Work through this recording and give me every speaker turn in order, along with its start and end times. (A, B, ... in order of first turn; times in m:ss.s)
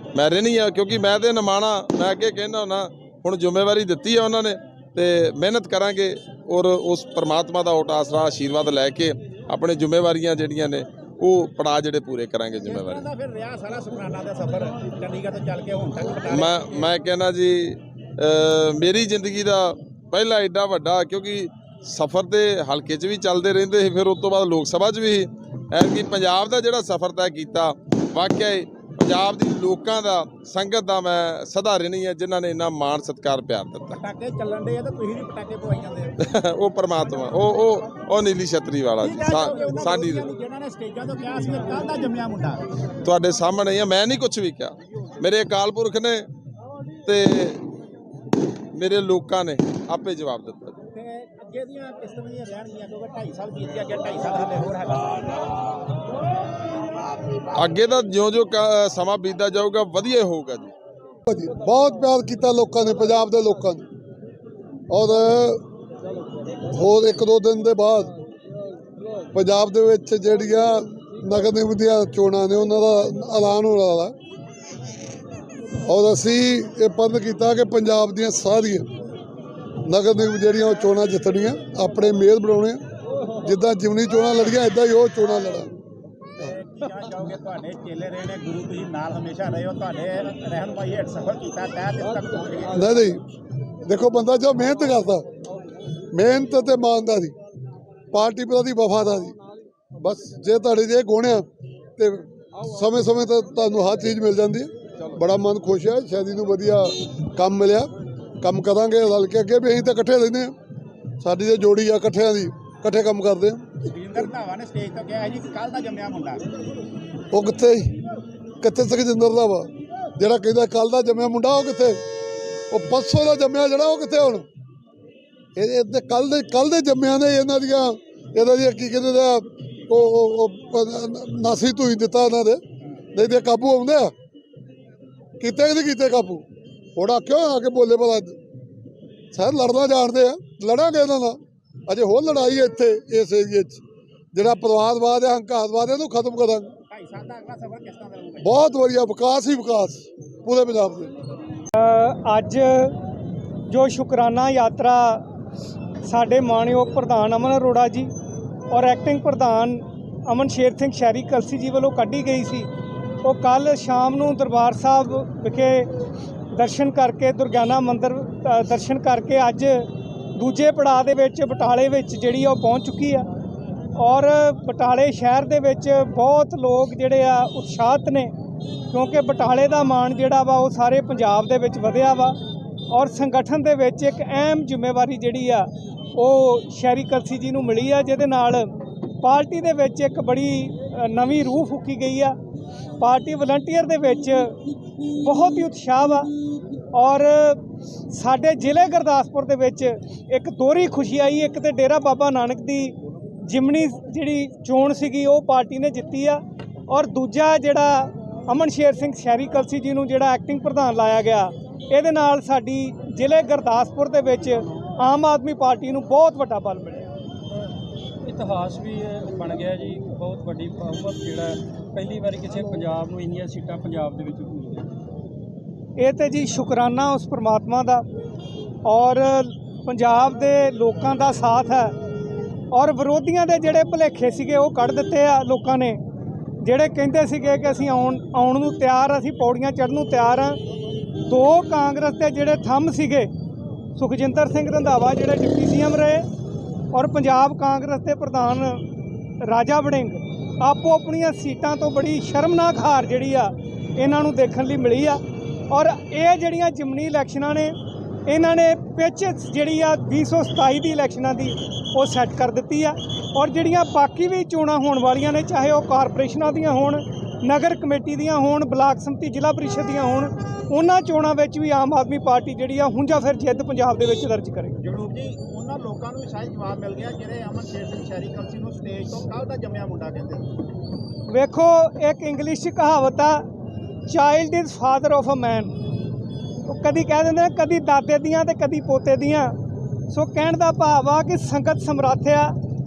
0:00.1-0:13.0 A
0:12.6-0:16.9 B
0:16.3-0:34.0 A
0:33.9-0:36.1 B
0:36.2-0:40.3 A
0:39.0-0:42.6 B
0:43.0-0:46.3 A
0:47.0-0:47.6 A
0:48.7-0:50.8 A
0:50.9-0:55.5 B
0:57.6-1:00.7 A
1:01.3-1:03.8 C
1:04.9-1:05.6 C
1:06.7-1:08.1 C
1:09.3-1:14.1 C
1:15.8-1:18.9 C
1:19.8-1:22.8 C
1:23.4-1:25.7 C
1:26.4-1:32.8 B
1:32.7-1:33.2 C
1:33.8-1:35.3 C
1:36.1-1:37.3 C
1:38.1-1:39.3 C
1:40.0-1:41.4 C
1:42.0-1:47.9 C
1:48.4-1:50.5 C
1:51.2-1:53.7 C
1:53.9-1:56.4 B
1:57.3-1:57.9 C
1:58.6-2:02.0 C
2:02.7-2:04.4 C
2:05.6-2:12.6 C
2:13.1-2:14.1 C
2:15.4-2:16.4 C
2:17.0-2:18.4 C
2:19.3-2:23.8 C
2:24.3-2:26.7 C
2:26.9-2:28.6 B
2:28.4-2:31.1 C
2:31.7-2:32.9 D
2:33.7-2:35.2 D
2:36.0-2:38.1 D
2:38.7-2:42.7 D
2:43.2-2:45.9 D
2:46.5-2:53.3 D
2:53.9-2:58.3 D
2:58.9-3:02.4 D
3:02.9-3:12.4 D
3:13.0-3:14.6 D
3:15.2-3:16.3 D
3:16.9-3:37.1 D
3:38.2-3:44.9 E
3:46.0-3:48.0 D
3:48.8-3:51.9 D
3:52.7-3:56.0 D
3:56.6-4:00.6 D
4:01.2-4:03.3 D
4:03.9-4:06.2 D
4:06.9-4:08.8 D
4:09.4-4:34.8 D
4:34.8-4:40.5 B
4:41.3-4:43.4 D
4:44.1-4:45.7 D
4:46.6-4:49.6 D
4:50.1-4:52.6 D